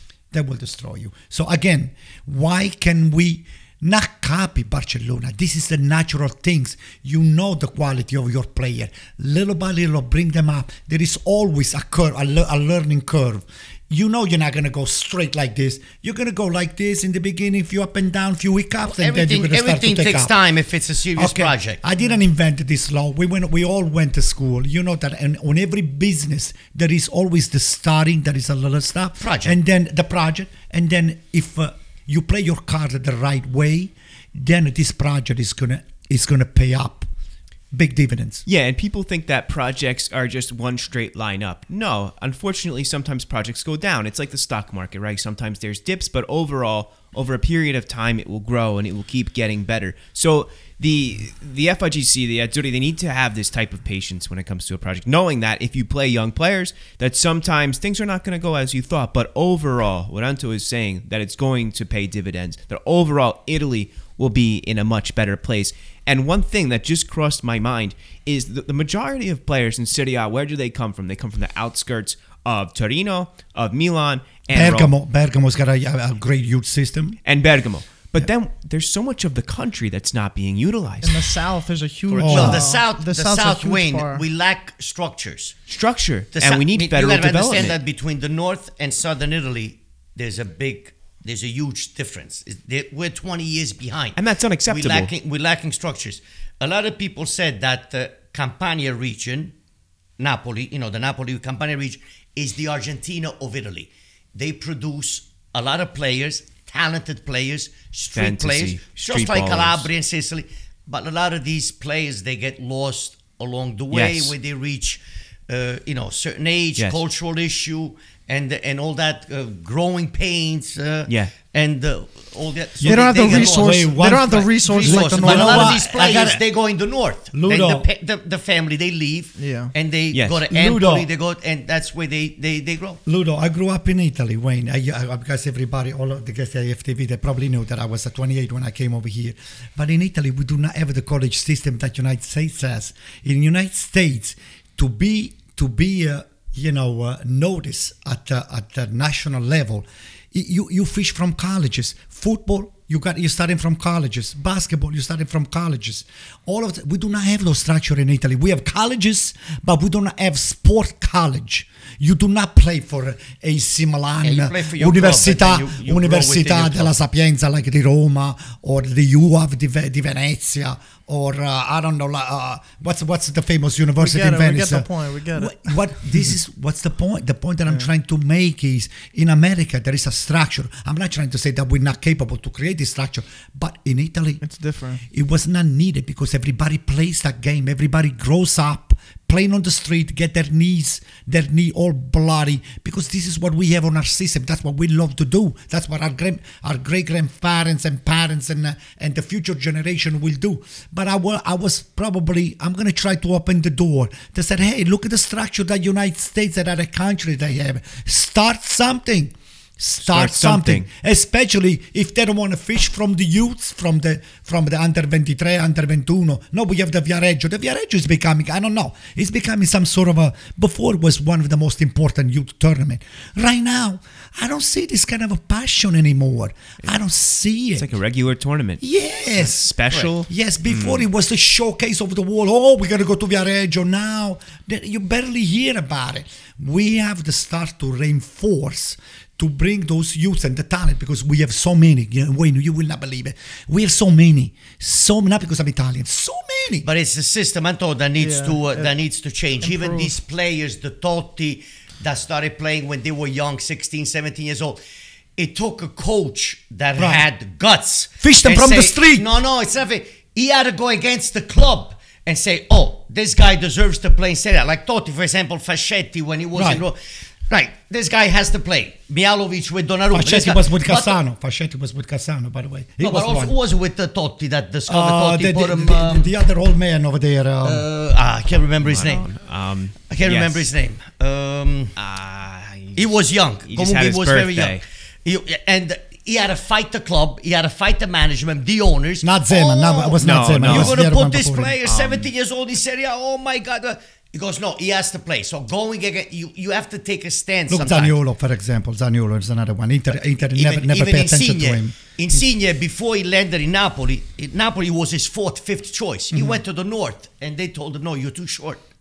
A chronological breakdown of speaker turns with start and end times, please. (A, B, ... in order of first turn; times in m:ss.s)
0:00.3-0:20.3 A
0:18.9-0:21.8 B
0:21.2-0:37.1 A
0:29.2-0:29.6 B
0:37.7-0:38.4 A
0:38.5-1:14.9 C
1:14.5-1:17.2 A
1:17.2-1:21.3 C
1:21.0-1:24.2 D
1:22.1-1:25.6 B
1:22.2-1:22.7 A
1:25.7-1:27.8 C
1:26.4-1:34.2 B
1:34.2-1:35.1 C
1:34.7-1:39.5 B
1:40.2-2:13.0 B
1:48.2-1:49.9 C
1:53.9-1:54.3 C
2:01.1-2:01.3 C
2:02.8-2:06.4 A
2:02.8-2:05.8 D
2:07.3-2:07.9 A
2:09.4-2:09.7 D
2:10.1-2:10.4 C
2:10.5-2:11.1 A
2:13.1-3:04.4 A
2:44.2-2:46.9 B
2:54.0-2:55.6 D
3:04.4-3:05.0 D
3:05.1-3:47.9 A
3:30.0-3:30.9 C
3:47.8-3:48.8 C
3:48.8-4:06.9 A
3:49.4-3:51.0 C
4:06.8-4:14.8 B
4:08.2-4:08.9 D
4:09.6-4:10.1 D
4:15.4-4:27.0 B
4:17.0-4:17.2 A
4:18.2-4:19.3 A
4:26.5-4:26.8 A
4:27.5-4:31.2 B
4:30.1-4:33.6 A
4:33.0-4:36.3 B
4:34.9-4:37.8 A
4:37.6-4:39.4 B
4:38.8-4:40.7 C
4:40.1-4:42.0 B
4:42.0-4:44.8 C
4:43.0-4:58.2 B
4:49.2-4:51.8 A
4:50.2-4:51.0 C
4:51.8-4:52.3 C
4:57.7-5:02.4 A
5:00.6-5:08.8 B